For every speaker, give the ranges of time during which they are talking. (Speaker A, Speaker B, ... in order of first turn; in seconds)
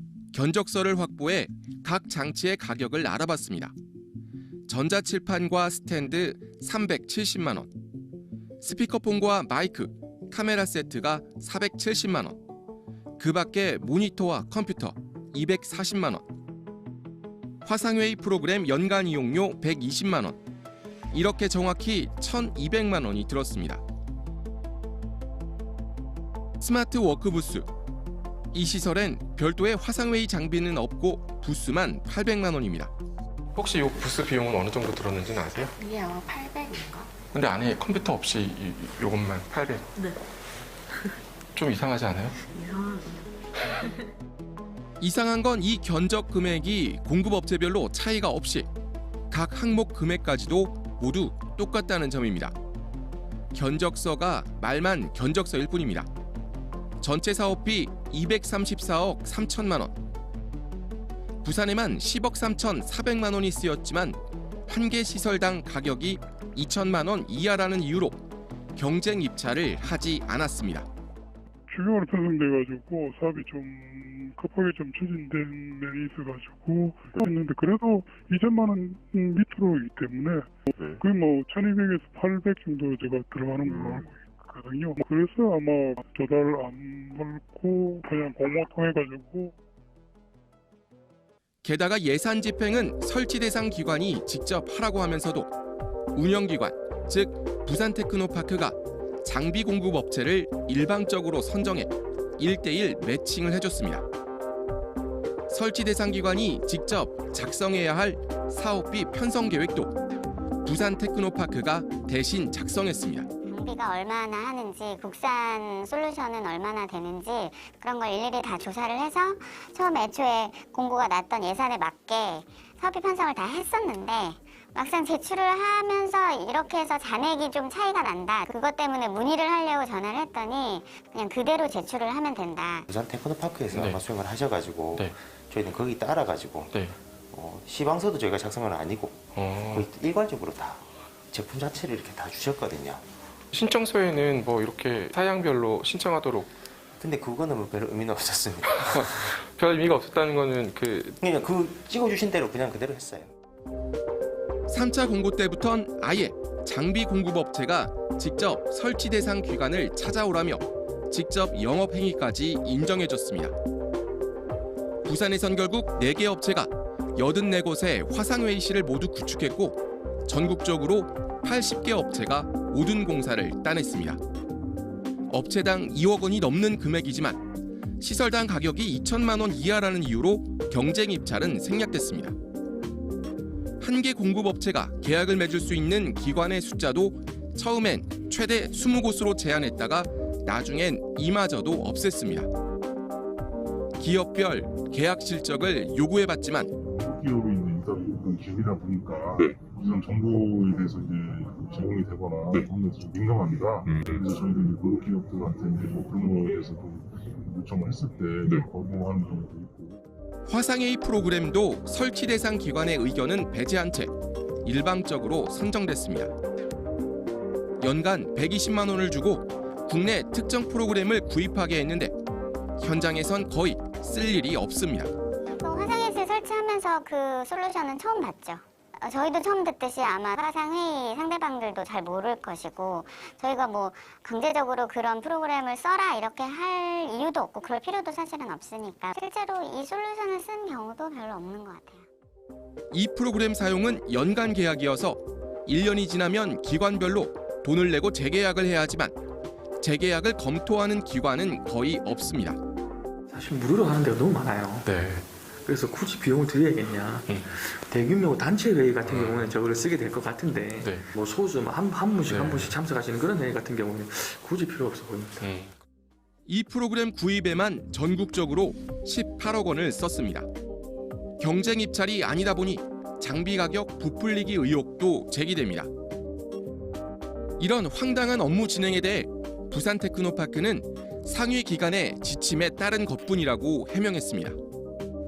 Speaker A: 0.3-3.7, 4.7-7.7, 8.6-12.4, 13.2-16.2, 17.6-20.4, 21.1-23.8, 26.6-27.7, 28.5-32.9, 45.0-48.7, 49.3-52.5, 53.5-56.1, 57.0-60.0, 61.4-68.2, 68.8-70.9, 91.6-95.5, 96.1-104.0, 105.5-109.9, 110.6-113.3, 154.7-163.5, 165.0-174.2, 175.3-177.4, 178.0-182.3, 183.8-192.5, 194.0-196.7, 210.5-214.1, 214.6-216.3, 217.8-222.1, 222.8-225.1, 242.9-249.1, 249.8-252.6, 266.5-270.5, 271.4-275.9, 277.6-284.6
Speaker B: 33.5-35.7, 37.3-39.8, 41.5-42.3, 133.7-134.0, 139.3-139.8, 143.5-146.5, 148.9-151.2, 254.9-255.2, 259.0-259.4, 262.3-262.7, 265.4-265.7
Speaker C: 35.8-37.1, 42.5-43.2
Speaker D: 71.7-89.5
Speaker E: 113.5-132.9, 225.6-242.0
Speaker F: 132.9-136.7, 137.3-143.0, 147.0-149.2, 151.2-153.3
Speaker G: 196.8-209.9
Speaker H: 253.3-254.9, 255.6-265.5